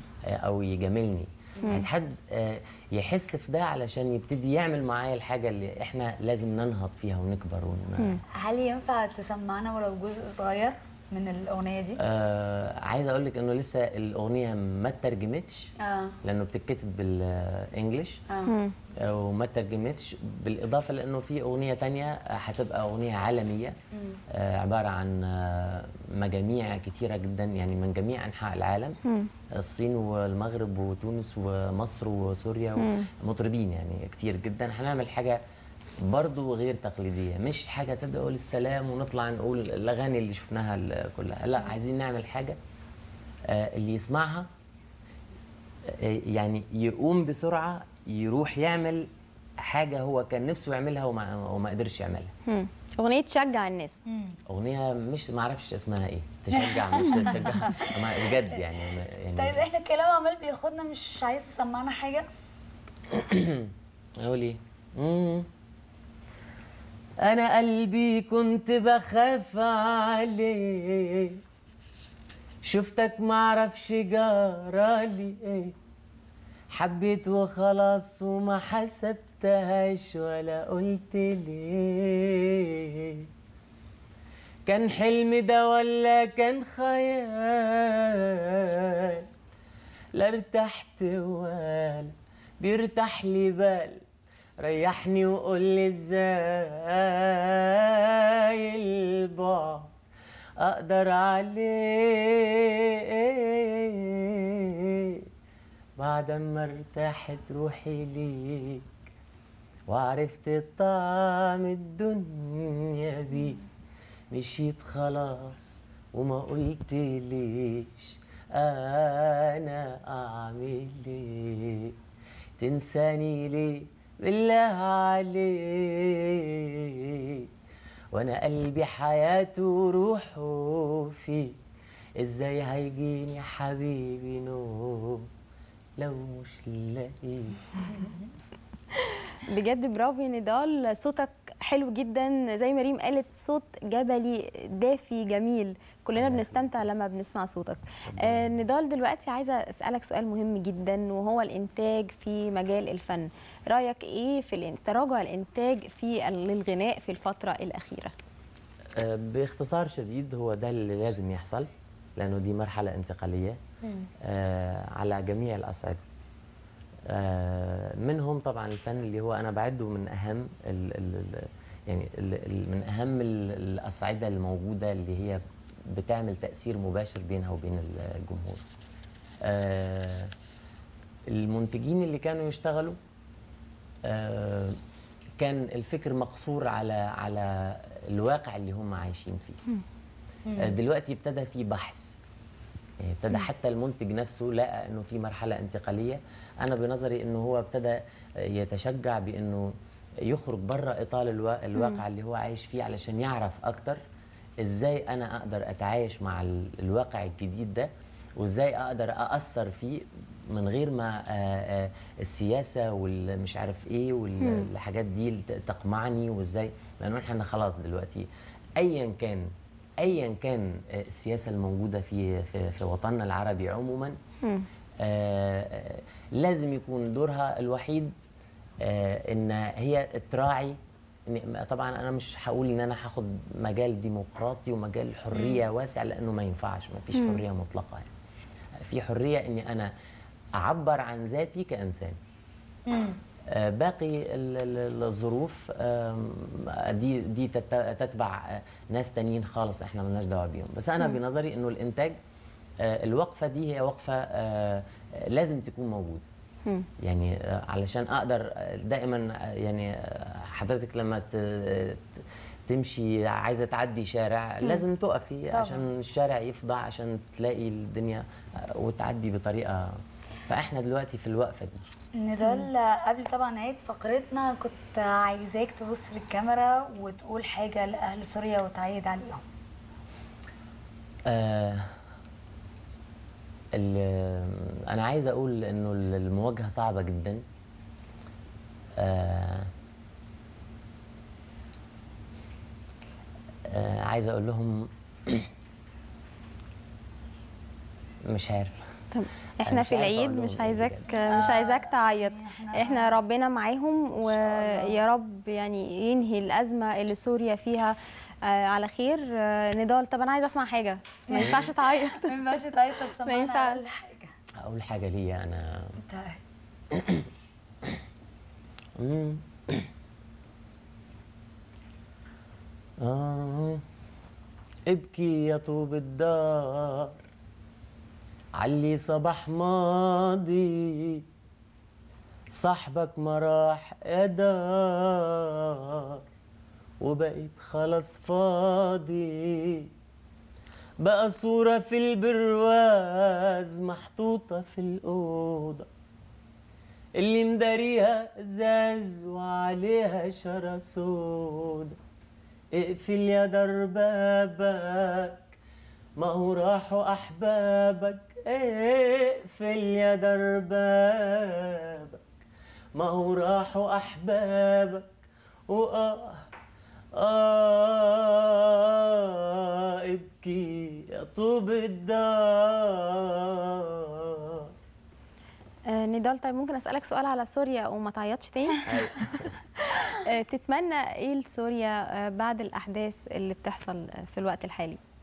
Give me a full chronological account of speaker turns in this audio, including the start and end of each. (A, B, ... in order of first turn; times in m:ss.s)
0:00.3-0:08.2 A
0:08.4-0:12.0 B
0:12.0-0:15.7 A
0:15.8-0:16.1 B
0:16.2-0:18.2 A
0:18.5-0:18.7 C
0:19.0-0:23.7 A
0:23.9-0:24.2 B
0:24.3-0:29.0 A
0:29.0-0:29.3 C
0:29.6-0:35.4 A
0:32.8-0:33.1 C
0:36.0-0:42.6 A
0:43.5-0:44.5 A
0:46.0-0:49.1 A
0:49.6-0:52.3 A
0:52.5-0:53.9 C
0:54.1-0:54.4 B
0:54.5-0:59.6 A
0:56.5-0:57.9 B
0:59.4-1:02.2 B
1:03.1-1:03.7 A
1:04.2-1:05.5 A
1:07.2-1:11.4 A
1:12.6-1:15.7 A
1:16.7-1:23.3 A
1:24.6-1:29.2 A
1:30.1-1:34.0 A
1:34.6-1:39.9 A
1:40.6-1:45.2 A
1:46.0-1:48.9 A
1:49.9-1:53.6 A
1:54.3-2:01.9 A
2:02.6-2:07.5 A
2:08.1-2:11.5 A
2:12.2-2:15.3 A
2:16.0-2:17.7 A
2:19.5-2:38.1 C
2:26.2-2:26.8 A
2:28.1-2:28.6 A
2:39.0-2:43.6 A
2:43.8-2:44.1 B
2:44.2-2:46.0 A
2:47.1-2:55.4 A
2:55.9-2:58.6 A
2:59.4-3:00.3 A
3:01.3-3:03.0 A
3:04.0-3:04.8 A
3:05.4-3:09.6 A
3:10.5-3:10.8 B
3:10.6-3:12.2 A
3:13.0-3:19.7 A
3:20.3-3:24.0 A
3:21.7-3:22.0 C
3:24.6-3:38.3 A
3:34.4-3:34.7 C
3:38.8-3:39.5 A
3:40.0-3:44.2 A
3:45.0-3:48.1 A
3:48.8-3:50.8 A
3:51.3-3:58.1 A
3:55.3-3:55.6 B
3:57.1-3:57.4 C
3:58.8-3:59.9 A
4:00.6-4:02.1 A
4:02.9-4:03.2 B
4:03.5-4:12.1 A
4:12.8-4:16.2 A
4:17.0-4:29.9 A
4:25.5-4:25.8 B
4:30.5-4:31.9 A
4:32.2-4:39.4 B
4:32.4-4:32.7 C
4:41.3-4:41.8 A
4:43.7-4:47.4 A
4:49.0-4:49.7 A
4:53.7-4:55.5 A
4:58.2-4:58.8 A
4:59.1-5:12.3 C
4:59.6-5:01.5 A
5:01.3-5:03.2 B
5:04.3-5:05.0 B
5:11.3-5:14.3 B
5:11.4-5:11.7 A
5:13.2-5:13.8 C
5:14.6-5:15.9 A
5:16.0-5:16.4 B
5:16.9-5:17.3 A
5:19.0-5:19.9 A
5:23.0-5:23.8 A
5:24.9-5:27.1 A
5:28.6-5:31.2 A
5:32.5-5:36.2 A
5:37.0-5:39.9 A
5:41.0-5:45.9 A
5:47.2-5:52.0 A
5:52.7-5:55.6 A
5:56.2-6:02.4 A
6:02.9-6:05.2 A
6:05.7-6:06.4 A
6:07.2-6:14.7 A
6:15.9-6:19.2 C
6:18.8-6:19.5 A
6:19.8-6:25.0 C